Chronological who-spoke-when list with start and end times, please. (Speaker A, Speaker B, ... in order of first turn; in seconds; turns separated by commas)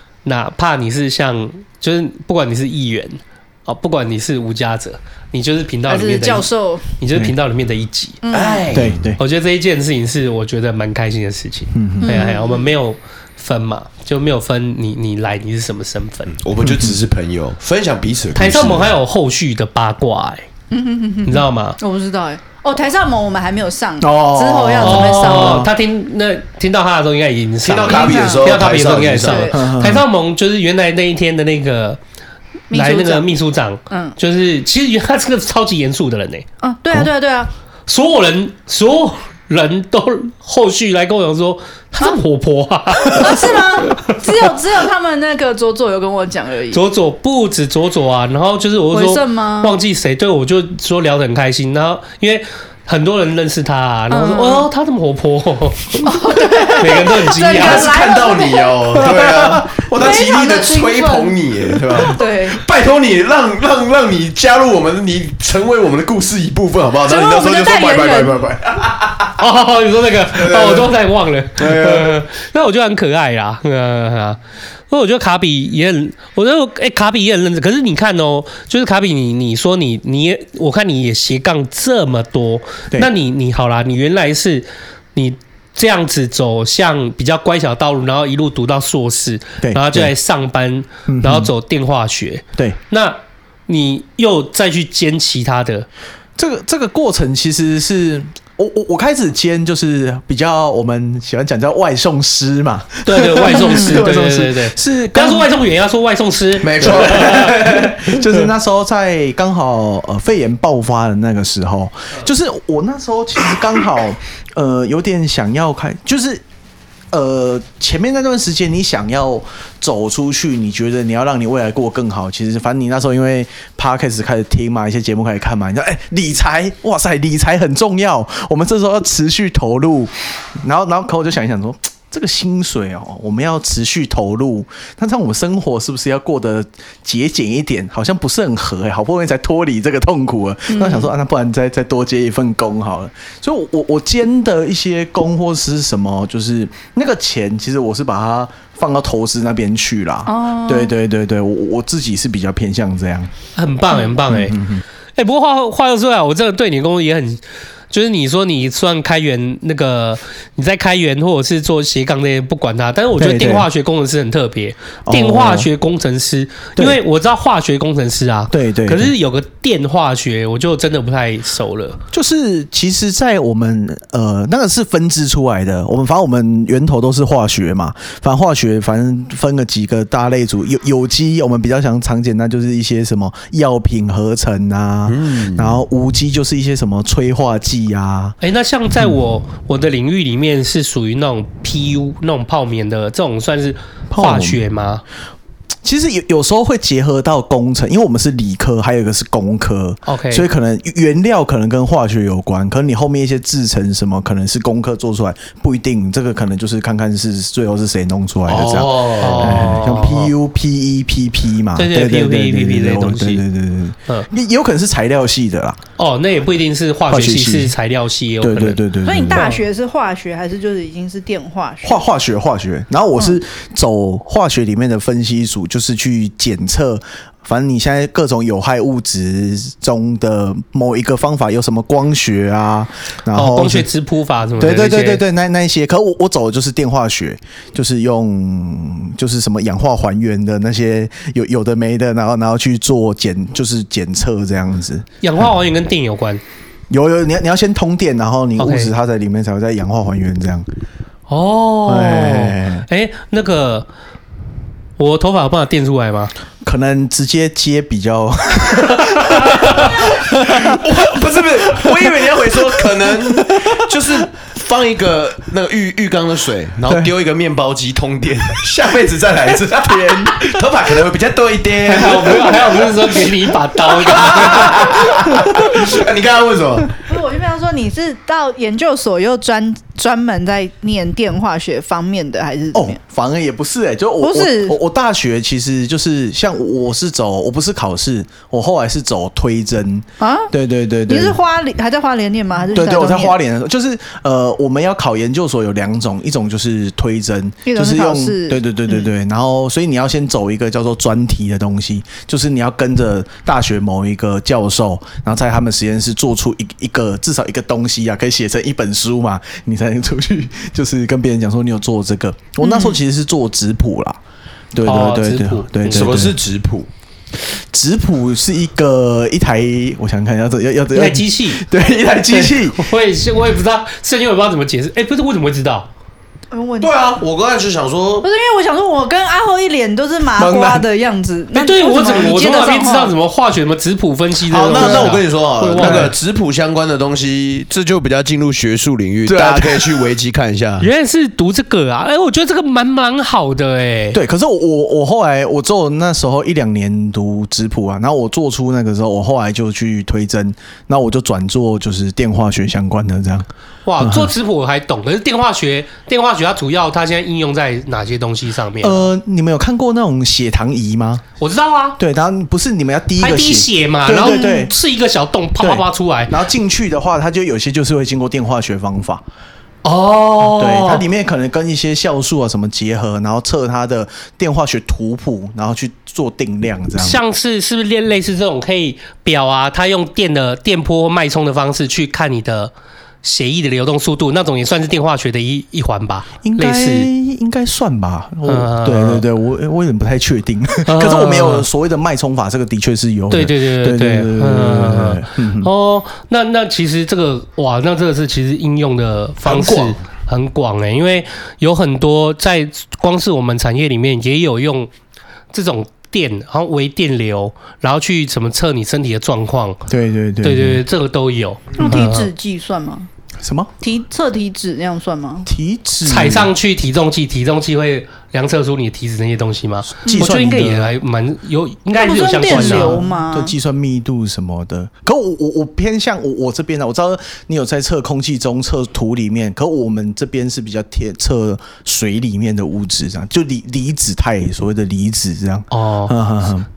Speaker A: 0.2-6.5, Speaker B: 5.9-6.8, Speaker A: 7.0-8.2, Speaker B: 8.2-8.7, Speaker C: 8.3-9.0, Speaker D: 8.7-9.2, Speaker A: 9.2-16.3, Speaker D: 11.7-12.2, Speaker B: 12.0-12.7, Speaker C: 16.3-18.9, Speaker D: 16.6-17.0, Speaker A: 18.3-20.4, Speaker B: 20.7-25.7, Speaker A: 21.2-21.8, Speaker D: 24.0-25.7, Speaker A: 24.8-32.0, Speaker C: 27.6-29.5, Speaker B: 27.8-28.5, Speaker B: 29.2-29.6, Speaker D: 29.5-30.0, Speaker B: 32.7-33.3, Speaker A: 32.7-36.4, Speaker B: 33.9-34.1, Speaker B: 36.6-37.5, Speaker A: 37.9-43.6, Speaker B: 43.1-46.8, Speaker A: 46.7-57.9, Speaker B: 48.9-49.7, Speaker B: 54.1-54.7, Speaker B: 56.0-59.0, Speaker C: 57.5-69.4, Speaker D: 59.1-59.8, Speaker B: 59.9-62.6, Speaker B: 67.0-68.5, Speaker A: 69.4-74.4, Speaker C: 70.3-70.9, Speaker C: 71.6-72.2, Speaker A: 74.9-95.9, Speaker D: 89.6-90.1, Speaker D: 91.1-91.5, Speaker D: 96.4-105.5, Speaker A: 103.0-107.5, Speaker B: 103.5-103.9, Speaker C: 106.6-107.9, Speaker D: 106.8-116.4, Speaker D: 117.1-153.3, Speaker B: 140.7-141.1, Speaker B: 150.2-150.9, Speaker A: 153.6-154.6, Speaker D: 154.3-154.8, Speaker A: 155.2-172.0, Speaker D: 163.2-163.7, Speaker D: 165.1-165.7, Speaker D: 168.5-169.1, Speaker D: 172.1-188.3, Speaker C: 185.1-185.8, Speaker A: 188.4-195.0, Speaker D: 194.1-194.6, Speaker D: 195.8-215.8, Speaker A: 200.1-200.4, Speaker C: 208.5-209.8, Speaker A: 209.2-210.3, Speaker A: 211.8-213.4, Speaker A: 216.0-218.8, Speaker D: 217.1-217.7, Speaker D: 218.4-219.5, Speaker B: 219.0-222.0, Speaker D: 221.8-233.9, Speaker A: 233.3-235.2, Speaker D: 234.6-245.4, Speaker A: 245.2-246.4, Speaker D: 246.9-250.7, Speaker A: 248.6-248.9, Speaker A: 251.3-253.9, Speaker D: 251.8-252.8, Speaker A: 255.0-256.3, Speaker D: 256.6-260.8, Speaker A: 259.0-259.8, Speaker C: 260.5-273.2, Speaker D: 261.7-262.2, Speaker D: 262.8-263.1, Speaker A: 271.8-275.1, Speaker C: 273.9-277.0, Speaker B: 277.1-283.0, Speaker D: 282.7-291.4, Speaker B: 284.2-284.8, Speaker B: 290.2-290.5, Speaker B: 291.1-293.4, Speaker D: 292.7-314.2, Speaker B: 297.6-299.1, Speaker B: 312.6-313.0, Speaker D: 314.7-316.4, Speaker A: 314.8-316.2, Speaker C: 315.9-316.9, Speaker D: 317.4-322.9, Speaker A: 320.9-321.6, Speaker A: 322.3-325.9, Speaker B: 326.5-326.9, Speaker C: 326.8-328.3, Speaker B: 328.2-333.1, Speaker D: 330.4-330.9, Speaker A: 331.5-336.1, Speaker C: 334.5-340.9, Speaker D: 334.8-335.2, Speaker D: 335.8-336.1, Speaker D: 339.2-339.9, Speaker A: 340.8-344.2, Speaker D: 344.1-353.5, Speaker A: 353.8-359.1, Speaker D: 354.0-354.3, Speaker D: 358.8-361.2, Speaker A: 361.4-362.0, Speaker D: 362.0-364.7, Speaker A: 363.2-366.3, Speaker B: 364.1-364.7, Speaker D: 365.6-369.2, Speaker A: 369.8-371.0, Speaker D: 370.5-377.2, Speaker A: 377.0-382.7, Speaker A: 383.2-387.1, Speaker D: 386.4-395.7, Speaker A: 388.4-389.2, Speaker A: 390.8-391.6, Speaker A: 393.3-404.9, Speaker D: 399.4-399.9, Speaker A: 405.5-409.9, Speaker D: 409.9-410.8, Speaker A: 410.4-412.3, Speaker B: 411.8-413.1, Speaker D: 411.8-412.1, Speaker D: 413.4-413.7, Speaker B: 413.8-415.5, Speaker D: 415.4-416.5, Speaker A: 416.1-423.0, Speaker D: 420.0-420.9, Speaker B: 420.0-420.4, Speaker B: 422.0-423.5, Speaker D: 422.4-436.7, Speaker A: 435.7-436.1